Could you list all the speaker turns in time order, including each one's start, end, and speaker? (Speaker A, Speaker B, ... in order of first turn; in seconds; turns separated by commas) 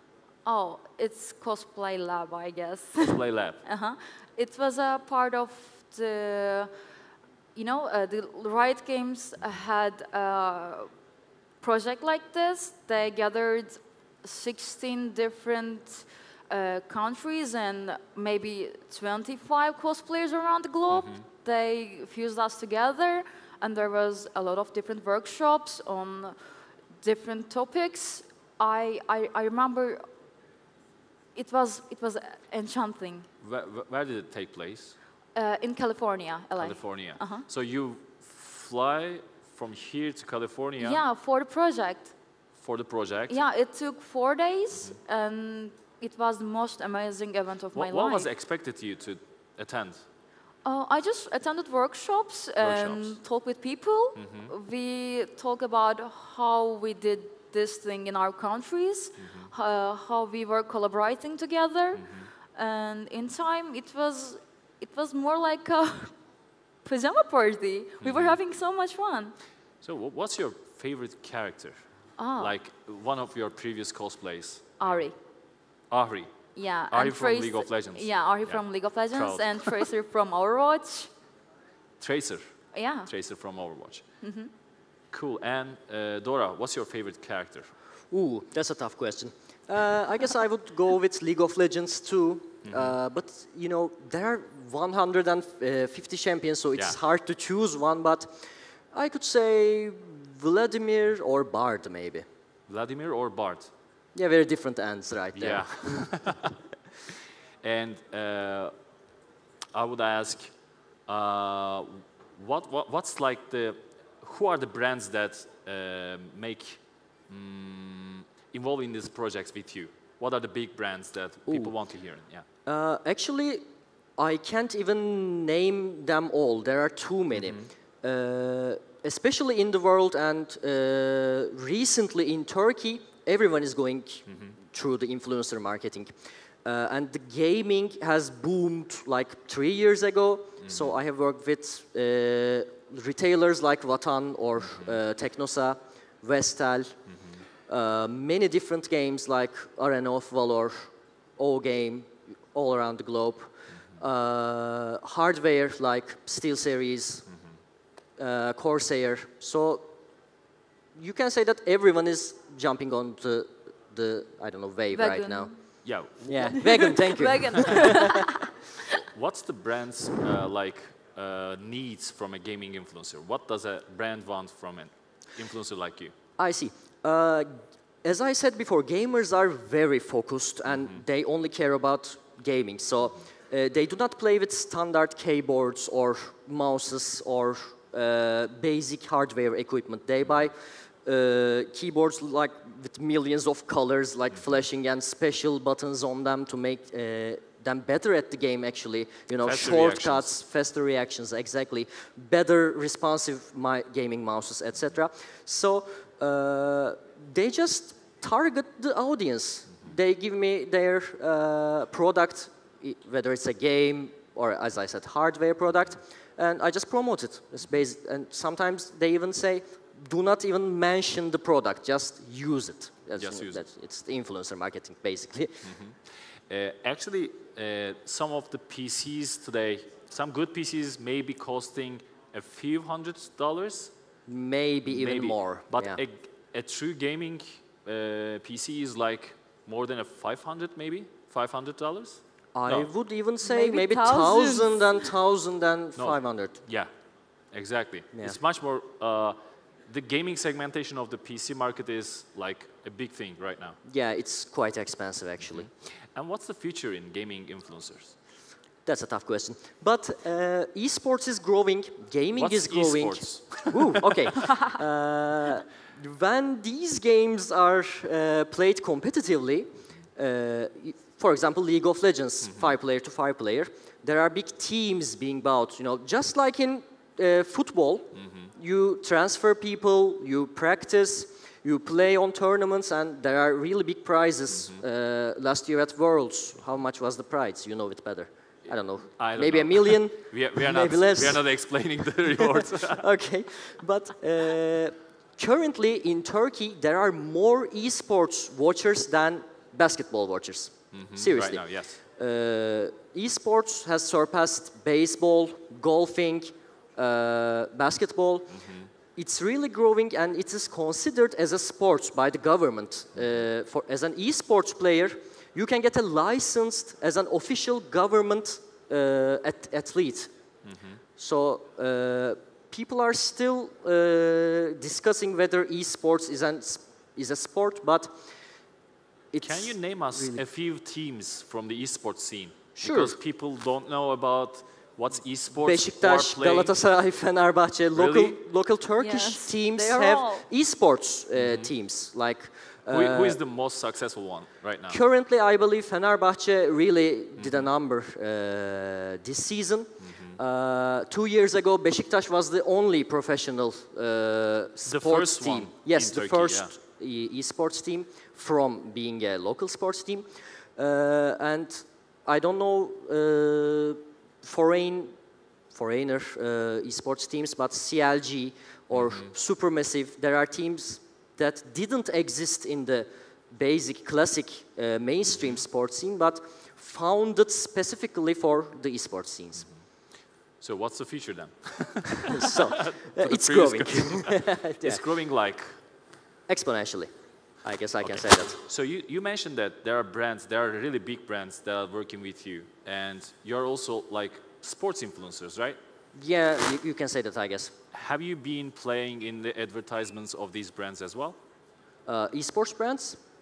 Speaker A: 0.5-6.7, Speaker B: 3.0-3.6, Speaker A: 7.5-10.9, Speaker A: 11.6-26.4, Speaker B: 20.9-21.2, Speaker A: 27.0-30.1, Speaker A: 31.4-33.3, Speaker B: 33.4-35.0, Speaker A: 35.4-37.5, Speaker B: 36.6-41.0, Speaker A: 40.8-42.1, Speaker B: 42.6-43.4, Speaker A: 43.3-48.3, Speaker B: 44.7-45.0, Speaker B: 47.7-50.0, Speaker A: 50.6-66.1, Speaker B: 52.6-53.2, Speaker B: 54.2-54.5, Speaker B: 59.2-59.5, Speaker B: 62.0-62.3, Speaker A: 66.8-69.3, Speaker B: 68.0-68.4, Speaker B: 69.8-71.8, Speaker A: 72.2-72.5, Speaker B: 72.4-75.0, Speaker A: 74.8-75.1, Speaker B: 75.9-78.6, Speaker A: 76.6-81.1, Speaker B: 79.1-79.8, Speaker B: 82.0-82.5, Speaker A: 82.7-83.1, Speaker B: 83.1-84.0, Speaker A: 84.2-84.5, Speaker B: 85.1-87.7, Speaker C: 88.1-102.2, Speaker B: 92.6-93.0, Speaker B: 102.7-103.7, Speaker C: 104.1-106.2, Speaker B: 105.3-106.6, Speaker B: 107.6-108.7, Speaker B: 109.7-110.5, Speaker B: 111.1-122.5, Speaker C: 121.5-121.8, Speaker C: 122.7-123.7, Speaker C: 124.2-147.0, Speaker B: 127.3-127.7, Speaker B: 134.3-134.6, Speaker B: 140.6-140.9, Speaker B: 147.1-147.4, Speaker C: 147.7-157.2, Speaker C: 158.2-159.9, Speaker C: 160.9-165.5, Speaker A: 164.9-165.6, Speaker B: 165.8-167.0, Speaker C: 166.2-168.0, Speaker A: 166.4-168.3, Speaker B: 169.1-176.1, Speaker C: 176.4-225.8, Speaker B: 199.4-200.3, Speaker B: 223.2-223.6, Speaker B: 225.6-233.9, Speaker C: 234.3-236.0, Speaker B: 234.9-242.9, Speaker C: 242.5-246.6, Speaker A: 243.4-245.0, Speaker B: 246.0-246.9, Speaker B: 247.5-253.8, Speaker C: 248.1-248.4, Speaker C: 253.8-255.7, Speaker B: 255.5-258.1, Speaker C: 258.9-291.4, Speaker B: 262.4-264.6, Speaker B: 272.4-272.8, Speaker B: 278.1-278.5, Speaker B: 284.5-284.8, Speaker B: 289.2-293.1, Speaker C: 292.4-320.3, Speaker B: 300.9-302.0, Speaker B: 308.5-308.9, Speaker B: 320.6-321.0, Speaker C: 321.2-328.1, Speaker C: 329.3-330.4, Speaker B: 329.4-336.7, Speaker C: 332.8-333.1, Speaker C: 335.6-343.4, Speaker B: 337.9-338.4, Speaker A: 339.0-340.4, Speaker B: 341.4-341.7, Speaker B: 342.9-345.0, Speaker C: 344.9-365.1, Speaker B: 347.4-347.7, Speaker B: 350.0-350.4, Speaker B: 354.9-356.7, Speaker C: 365.7-379.7, Speaker B: 368.9-369.3, Speaker B: 380.6-385.8, Speaker C: 382.3-385.0, Speaker C: 386.5-387.1, Speaker C: 387.6-388.6, Speaker B: 388.0-395.8, Speaker C: 396.1-397.7, Speaker B: 397.9-401.4, Speaker C: 402.1-403.2